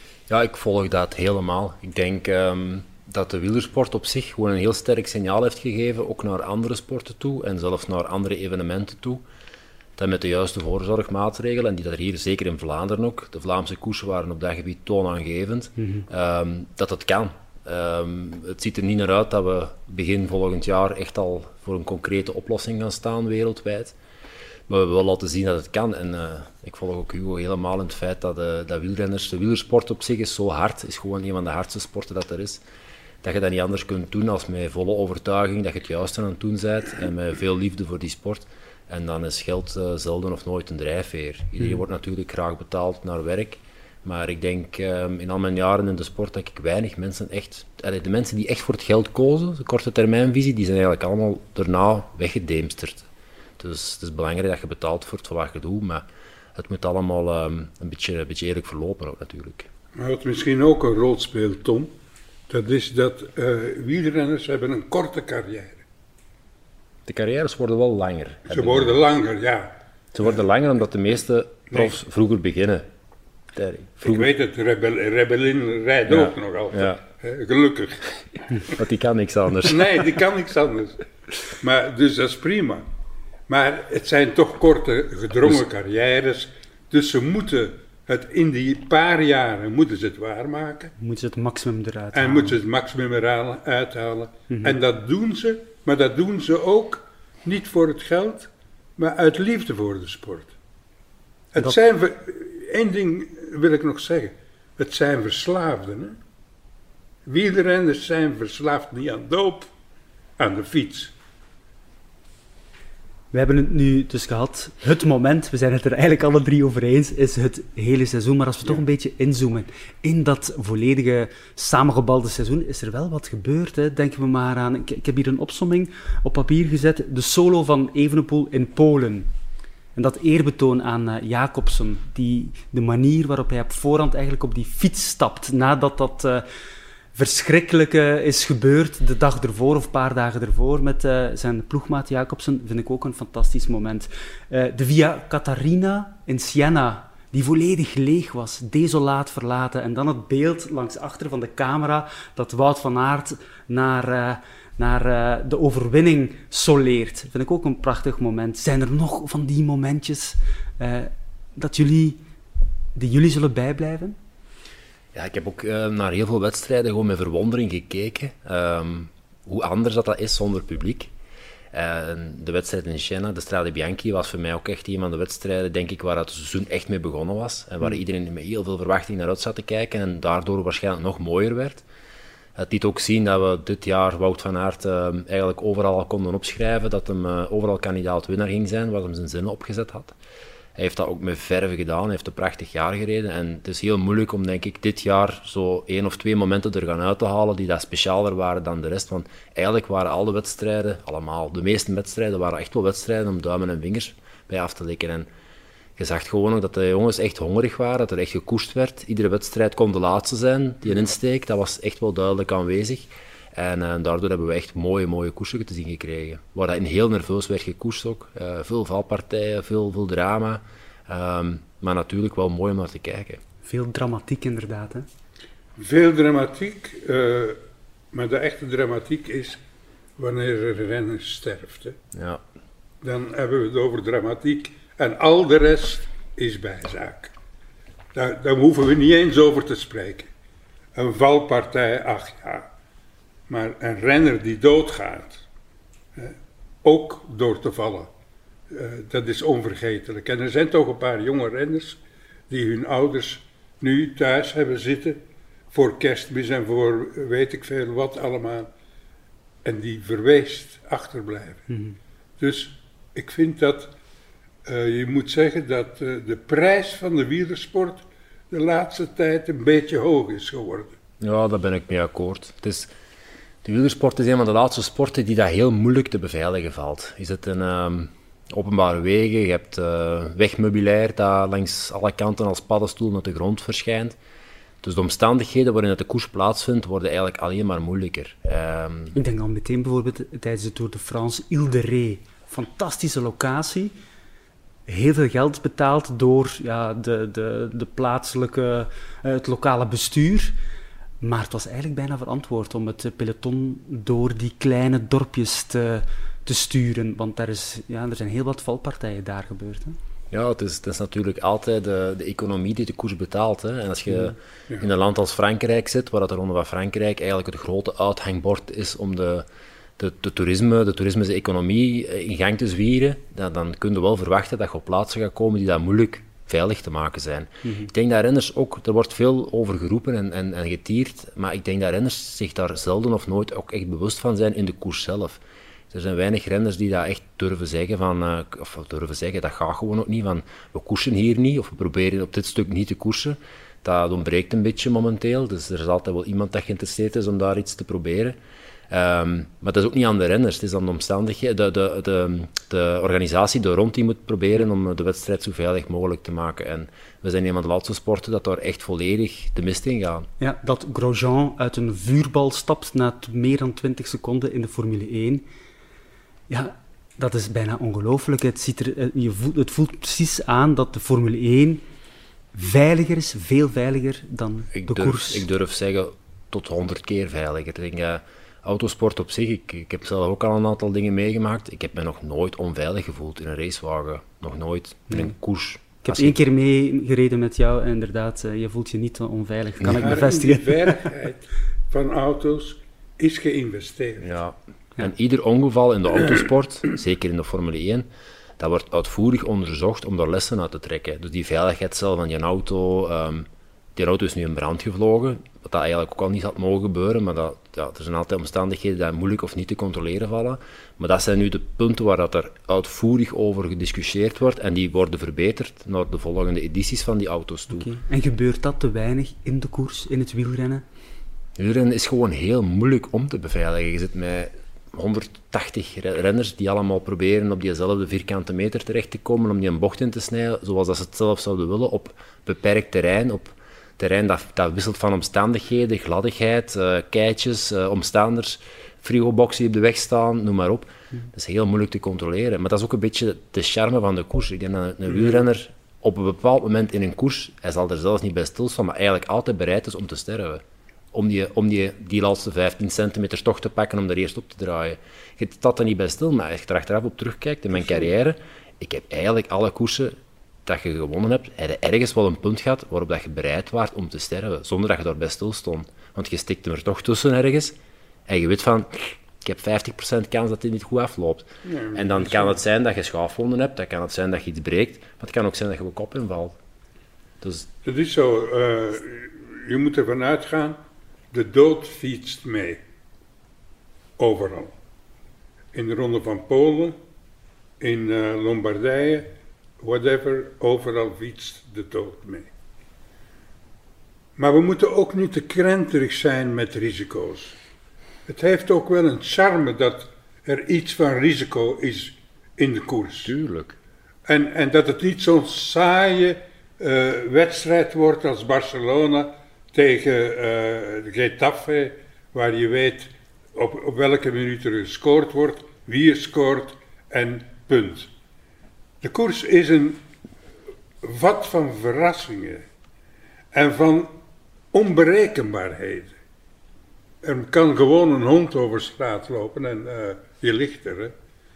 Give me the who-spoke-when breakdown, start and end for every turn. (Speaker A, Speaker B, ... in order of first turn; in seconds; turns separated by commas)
Speaker A: 0.3-9.2, Speaker A: 10.0-23.9, Speaker B: 15.8-16.1, Speaker A: 24.7-32.6, Speaker A: 33.2-53.0, Speaker A: 53.6-56.0, Speaker A: 56.5-59.7, Speaker C: 60.0-61.9, Speaker C: 62.5-65.8, Speaker A: 67.0-69.0, Speaker C: 68.5-69.7, Speaker A: 70.1-72.9, Speaker C: 71.7-72.0, Speaker A: 73.5-74.3, Speaker C: 74.0-78.1, Speaker A: 76.1-77.0, Speaker A: 78.7-80.0, Speaker C: 79.6-82.8, Speaker C: 83.5-90.9, Speaker B: 91.0-92.6, Speaker C: 92.1-100.5, Speaker B: 94.5-94.8, Speaker C: 101.5-106.2, Speaker C: 107.2-109.7, Speaker C: 110.4-111.1, Speaker B: 113.3-129.3, Speaker B: 129.9-136.4, Speaker B: 137.1-162.2, Speaker B: 162.9-164.2, Speaker A: 165.1-171.1, Speaker A: 171.7-181.8, Speaker A: 182.6-190.2, Speaker A: 190.8-205.3, Speaker A: 206.0-223.4, Speaker B: 223.6-225.1, Speaker C: 225.8-227.6, Speaker C: 228.1-229.6, Speaker C: 230.2-231.9, Speaker A: 232.1-232.4, Speaker C: 233.0-237.3, Speaker C: 238.1-240.3, Speaker C: 240.9-242.7, Speaker C: 243.5-245.4, Speaker C: 246.2-248.1, Speaker C: 248.7-255.2, Speaker C: 255.7-258.7, Speaker C: 259.6-261.7, Speaker B: 261.7-261.9, Speaker C: 262.4-263.9, Speaker C: 264.6-270.9, Speaker A: 271.2-272.9, Speaker A: 273.6-284.2, Speaker A: 284.8-289.1, Speaker B: 289.1-293.9, Speaker B: 294.9-300.5, Speaker B: 301.2-310.0, Speaker A: 310.3-319.4, Speaker A: 320.0-335.4, Speaker A: 335.9-348.4, Speaker A: 348.9-360.3, Speaker B: 360.4-365.4, Speaker B: 366.5-371.8, Speaker B: 372.5-375.4, Speaker A: 374.7-386.4, Speaker B: 385.1-385.3, Speaker B: 386.0-391.0, Speaker A: 389.8-390.1, Speaker C: 389.9-394.3, Speaker A: 394.2-398.1, Speaker A: 398.6-417.9, Speaker B: 417.7-420.8, Speaker A: 421.6-467.7, Speaker A: 468.3-476.6, Speaker C: 471.6-472.6, Speaker A: 477.4-477.7, Speaker C: 477.8-480.8, Speaker C: 481.3-482.8, Speaker C: 484.2-484.7, Speaker C: 485.7-487.0, Speaker C: 487.8-492.5, Speaker C: 494.4-497.5, Speaker C: 498.3-503.3, Speaker A: 503.2-503.8, Speaker C: 504.3-518.1, Speaker C: 519.0-520.0, Speaker C: 521.0-522.6, Speaker C: 523.5-524.1, Speaker C: 524.7-526.1, Speaker C: 527.2-531.1